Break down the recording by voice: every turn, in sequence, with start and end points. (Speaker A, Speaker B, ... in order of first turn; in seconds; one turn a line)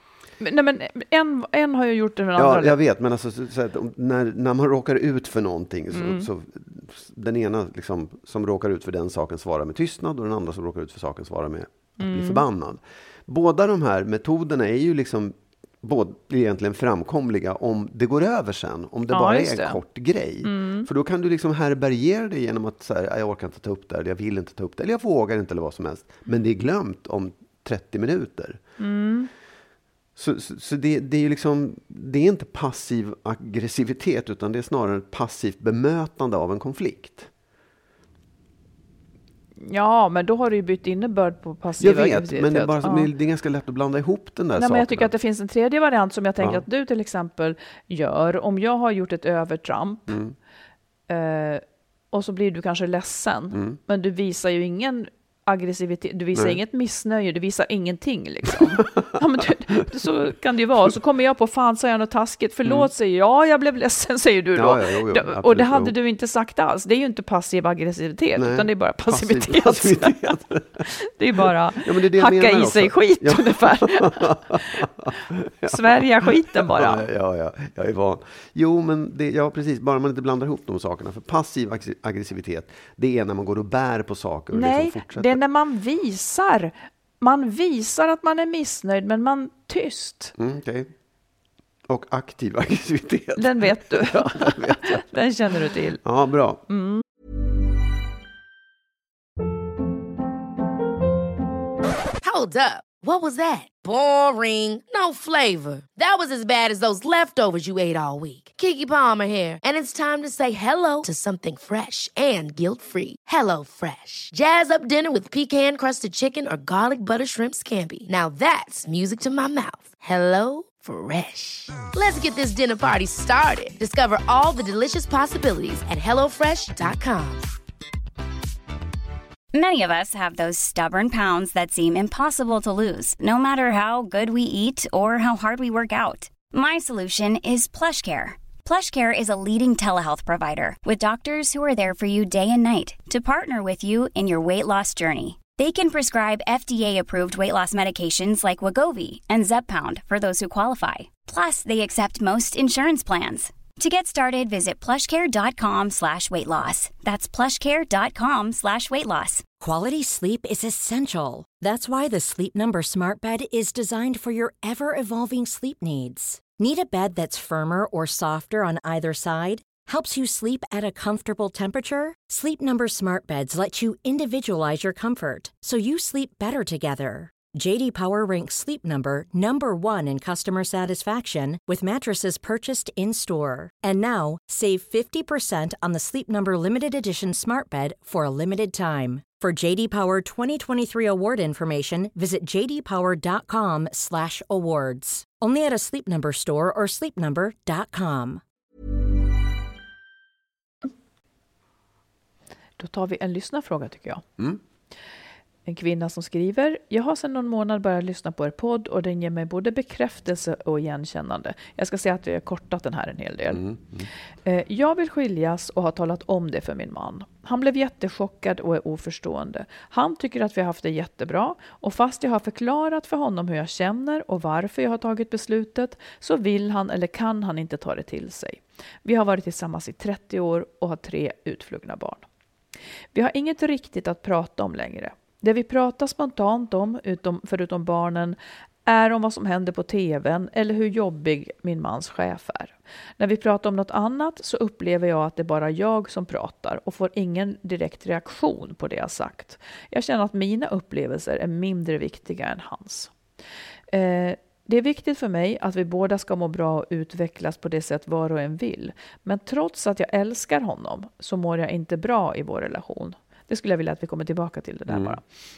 Speaker A: 0.4-2.8
Speaker B: 2.4-28.6
Speaker A: 5.9-6.3
Speaker A: 12.0-12.4
Speaker A: 19.1-19.8
Speaker A: 20.4-20.9
Speaker A: 28.8-29.3
Speaker B: 30.1-37.3
Speaker A: 39.6-43.1
Speaker B: 41.8-45.1
Speaker A: 44.5-50.2
Speaker B: 50.1-50.3
Speaker A: 51.1-74.8
Speaker B: 53.5-53.8
Speaker B: 58.8-59.1
Speaker B: 64.5-65.9
Speaker B: 68.3-70.8
Speaker B: 71.7-85.4
Speaker A: 75.7-77.0
Speaker A: 84.5-90.3
Speaker B: 90.4-90.9
Speaker B: 91.9-95.1
Speaker A: 93.4-96.0
Speaker B: 96.0-96.6
Speaker A: 96.7-97.0
Speaker C: 102.2-127.5
Speaker D: 129.5-159.4
Speaker E: 159.6-198.4
Speaker A: 202.8-204.2
Speaker A: 205.7-213.6
Speaker B: 213.5-214.1
Speaker A: 214.4-232.2
Speaker A: 233.1-253.1
Speaker A: 253.9-265.2
Speaker B: 264.9-265.2